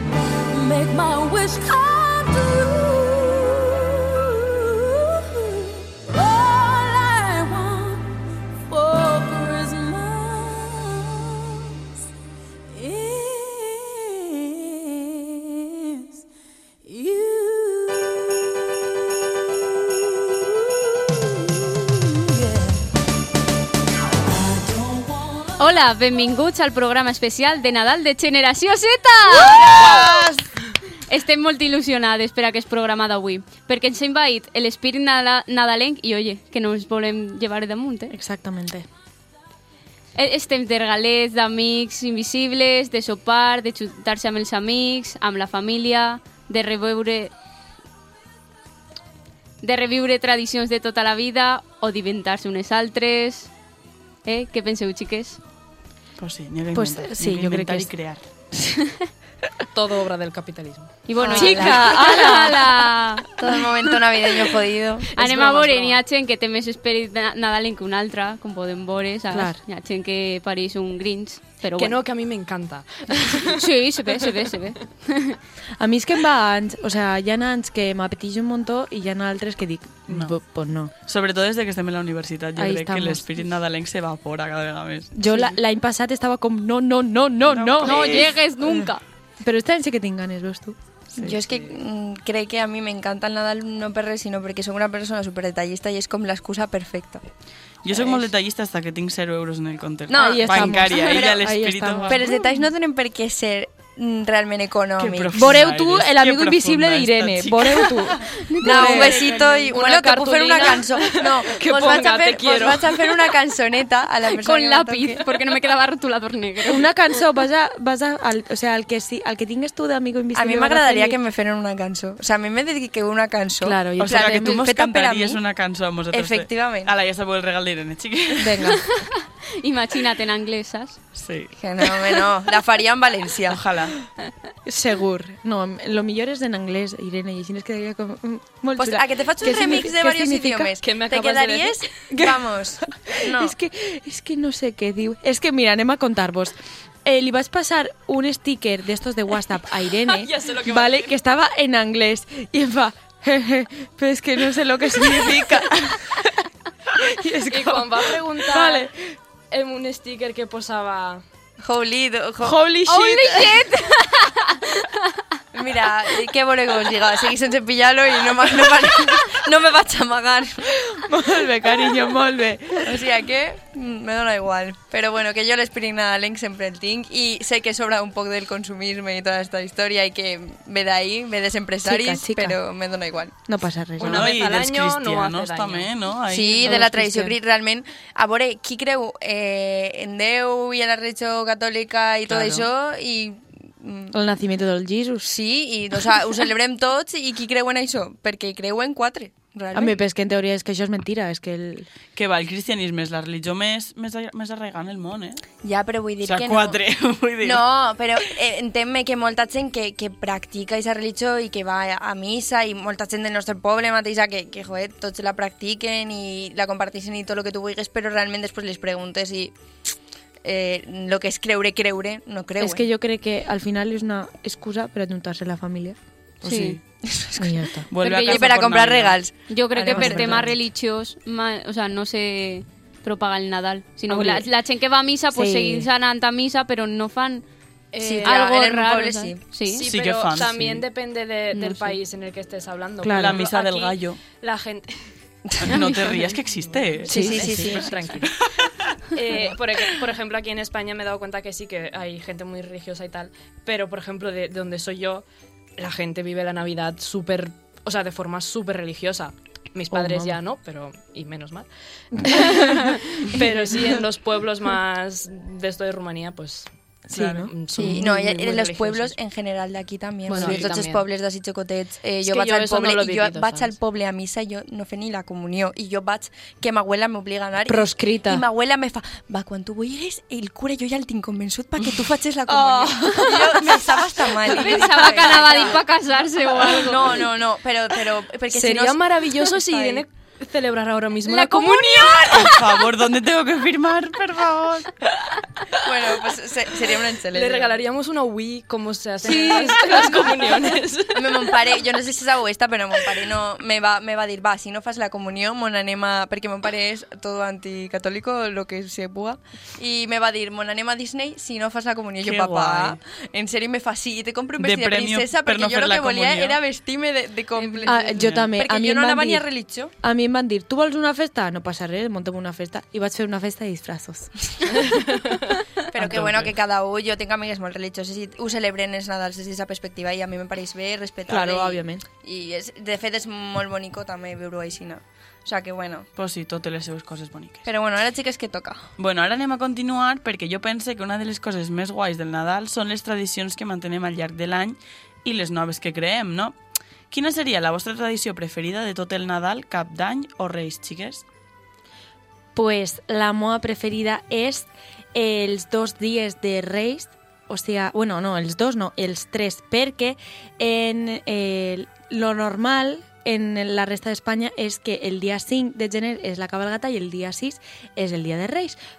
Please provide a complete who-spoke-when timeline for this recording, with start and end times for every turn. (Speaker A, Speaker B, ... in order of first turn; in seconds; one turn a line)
Speaker A: 0.5-11.6
Speaker A: 12.7-16.0
Speaker A: 16.8-18.5
Speaker A: 20.6-21.7
Speaker A: 22.2-22.7
Speaker A: 24.3-25.5
Speaker B: 25.6-30.1
Speaker B: 31.1-38.1
Speaker C: 38.1-38.9
Speaker B: 40.1-47.3
Speaker B: 49.6-53.5
Speaker B: 54.2-55.4
Speaker D: 56.2-58.2
Speaker C: 56.7-57.9
Speaker E: 59.7-62.5
Speaker B: 61.1-63.2
Speaker F: 61.2-61.8
Speaker C: 61.4-62.9
Speaker F: 63.4-65.1
Speaker E: 65.1-66.0
Speaker B: 65.1-72.0
Speaker C: 69.3-69.6
Speaker E: 71.8-73.6
Speaker B: 73.4-75.4
Speaker C: 75.8-80.9
Speaker D: 80.1-80.4
Speaker D: 81.0-85.1
Speaker C: 82.5-83.2
Speaker C: 85.1-88.9
Speaker D: 87.5-88.3
Speaker B: 87.8-89.0
Speaker C: 89.4-90.8
Speaker F: 91.2-97.2
Speaker E: 91.3-91.8
Speaker F: 97.8-98.3
Speaker D: 97.8-102.2
Speaker F: 100.1-101.4
Speaker C: 100.2-102.5
Speaker F: 102.1-105.4
Speaker D: 105.0-108.2
Speaker C: 105.3-109.3
Speaker B: 108.3-110.8
Speaker F: 108.6-115.2
Speaker E: 110.3-113.3
Speaker B: 114.3-116.9
Speaker C: 116.7-121.2
Speaker F: 120.3-125.4
Speaker C: 123.6-124.7
Speaker D: 124.0-128.8
Speaker F: 126.1-126.9
Speaker F: 128.3-128.8
Speaker B: 128.8-131.0
Speaker D: 131.2-132.1
Speaker F: 131.6-133.6
Speaker D: 133.5-134.0
Speaker C: 134.7-140.7
Speaker F: 138.8-143.5
Speaker E: 140.8-142.0
Speaker C: 142.1-159.2
Speaker E: 150.1-151.1
Speaker E: 157.5-158.9
Speaker E: 159.5-161.2
Speaker F: 161.6-162.6
Speaker C: 162.4-163.7
Speaker B: 162.8-165.0
Speaker F: 165.5-170.7
Speaker C: 170.8-173.0
Speaker F: 172.8-183.4
Speaker C: 181.8-182.6
Speaker C: 183.5-184.4
Speaker E: 184.0-185.9
Speaker D: 184.0-186.8
Speaker F: 186.3-194.1
Speaker C: 186.6-187.3
Speaker D: 192.3-192.7
Speaker C: 194.1-195.3
Speaker F: 195.2-199.9
Speaker C: 199.7-201.9
Speaker D: 202.1-205.4
Speaker F: 205.6-206.8
Speaker D: 206.2-207.7
Speaker F: 207.4-219.5
Speaker F: 220.4-222.8
Speaker C: 222.6-226.0
Speaker B: 226.4-226.8
Speaker D: 226.4-226.8
Speaker F: 227.0-227.7
Speaker C: 227.4-227.9
Speaker D: 227.9-229.2
Speaker B: 228.0-228.5
Speaker F: 228.2-230.5
Speaker B: 229.5-237.4
Speaker C: 229.9-230.5
Speaker C: 234.1-234.5
Speaker C: 235.3-235.9
Speaker E: 237.9-238.5
Speaker F: 238.0-239.4
Speaker B: 238.2-239.9
Speaker E: 239.7-245.1
Speaker D: 239.8-240.8
Speaker B: 241.5-242.0
Speaker C: 243.0-243.4
Speaker D: 243.2-244.2
Speaker D: 245.6-247.4
Speaker B: 245.7-246.4
Speaker E: 246.6-248.4
Speaker C: 247.1-247.9
Speaker F: 247.1-248.2
Speaker D: 247.9-248.4
Speaker E: 249.1-255.2
Speaker E: 255.8-266.7
Speaker C: 259.9-260.4
Speaker C: 262.2-263.0
Speaker C: 267.1-268.1
Speaker D: 267.1-267.4
Speaker E: 267.2-269.1
Speaker F: 267.8-285.8
Speaker E: 270.2-271.1
Speaker E: 272.2-273.8
Speaker C: 277.6-278.4
Speaker C: 282.5-284.5
Speaker B: 284.5-287.2
Speaker F: 286.7-290.0
Speaker E: 288.5-292.6
Speaker B: 291.4-292.2
Speaker F: 291.5-292.8
Speaker D: 292.2-295.0
Speaker F: 295.8-297.8
Speaker E: 297.3-301.6
Speaker B: 299.3-300.3
Speaker F: 299.3-300.1
Speaker F: 301.1-319.9
Speaker D: 312.2-313.0
Speaker D: 314.6-316.6
Speaker C: 317.9-319.4
Speaker D: 318.1-318.5
Speaker C: 320.0-324.3
Speaker E: 324.7-325.5
Speaker F: 325.9-336.1
Speaker D: 325.9-326.6
Speaker C: 331.3-332.1
Speaker D: 336.1-337.6
Speaker F: 337.6-338.9
Speaker D: 339.0-346.6
Speaker D: 347.1-351.2
Speaker C: 352.6-368.8